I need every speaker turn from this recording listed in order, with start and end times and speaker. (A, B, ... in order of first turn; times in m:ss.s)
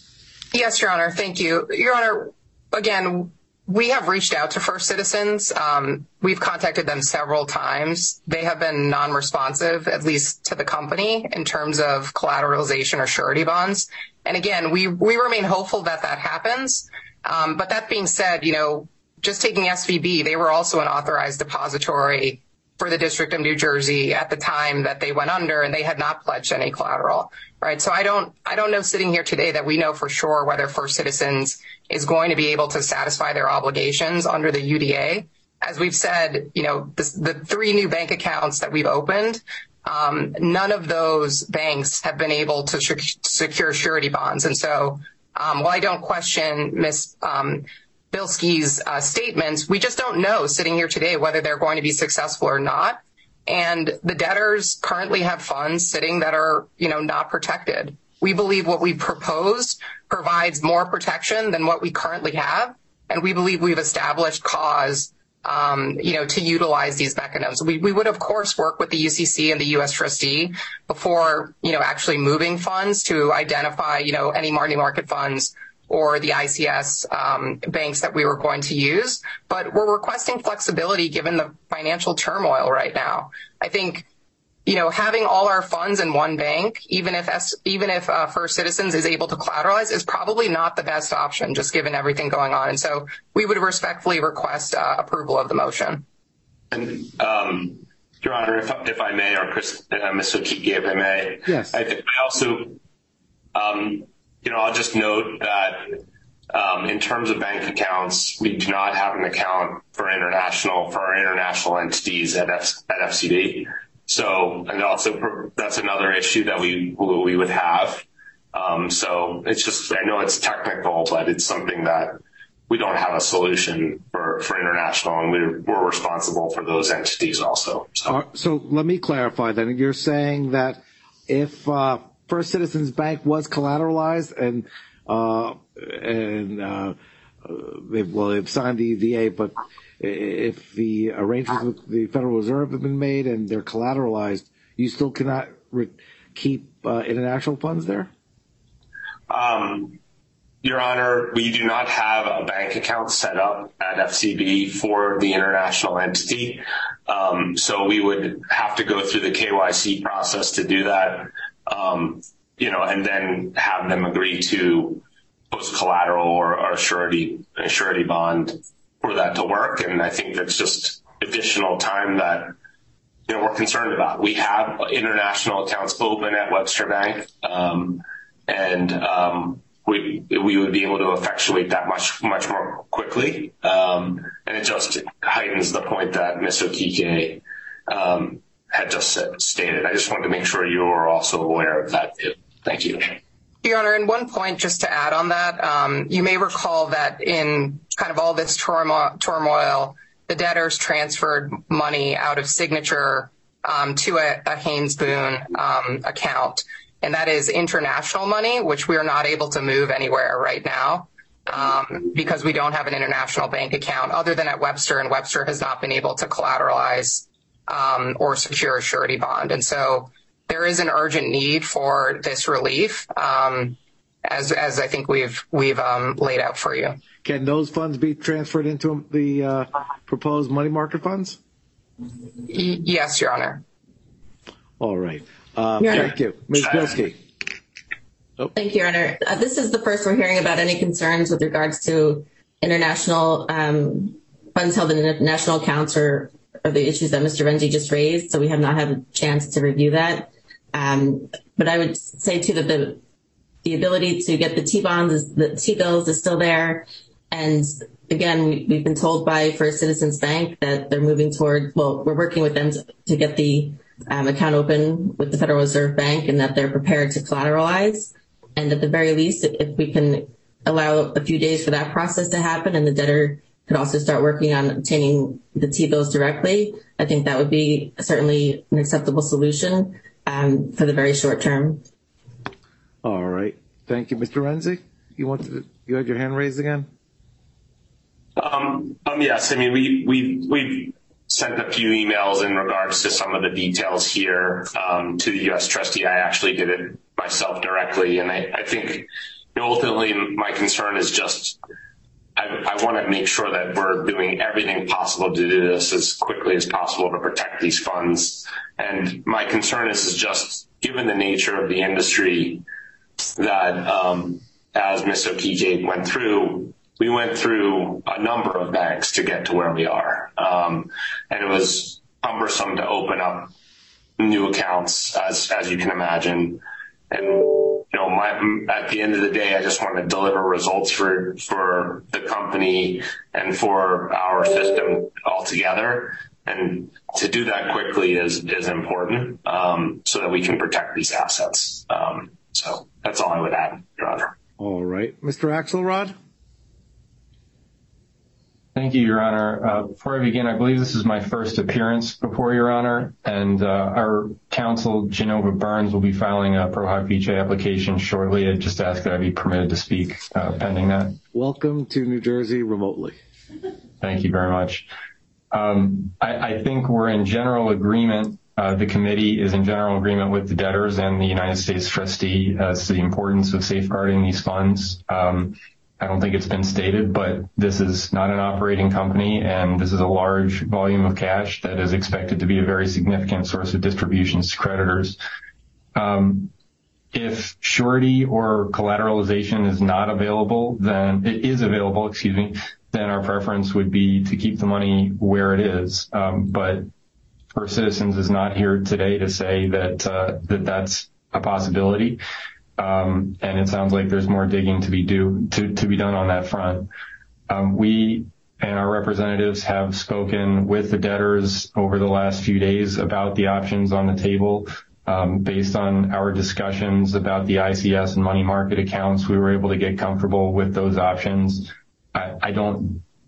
0:00.5-1:24.1 A
1:24.7-1:36.0 A
1:36.7-1:42.8 B
1:41.5-1:41.8 C
1:43.6-2:02.2 B
2:02.7-2:08.2 B
2:08.1-2:28.1 C
2:29.3-2:30.0 B
2:30.6-2:52.6 B
2:53.3-3:13.2 B
3:13.6-3:47.0 A
3:47.2-3:51.4 C
3:52.5-3:53.6 A
3:54.8-3:57.2 C
3:55.8-3:56.1 D
3:56.6-3:57.0 B
3:58.6-4:13.0 D
4:13.6-4:41.8 D
4:43.0-4:46.9 C
4:48.4-5:01.6 B
5:02.4-5:12.6 B
5:13.4-5:23.5 B
5:24.2-5:44.3 B
5:44.6-5:46.1 C
5:48.8-6:01.2 E
6:01.3-6:03.2 C
6:04.0-6:04.9 E
6:05.5-6:25.2 E
6:26.0-6:26.5 E
6:27.1-6:36.9 E
6:37.5-6:42.2 E
6:42.8-6:46.9 E
6:47.5-7:03.0 E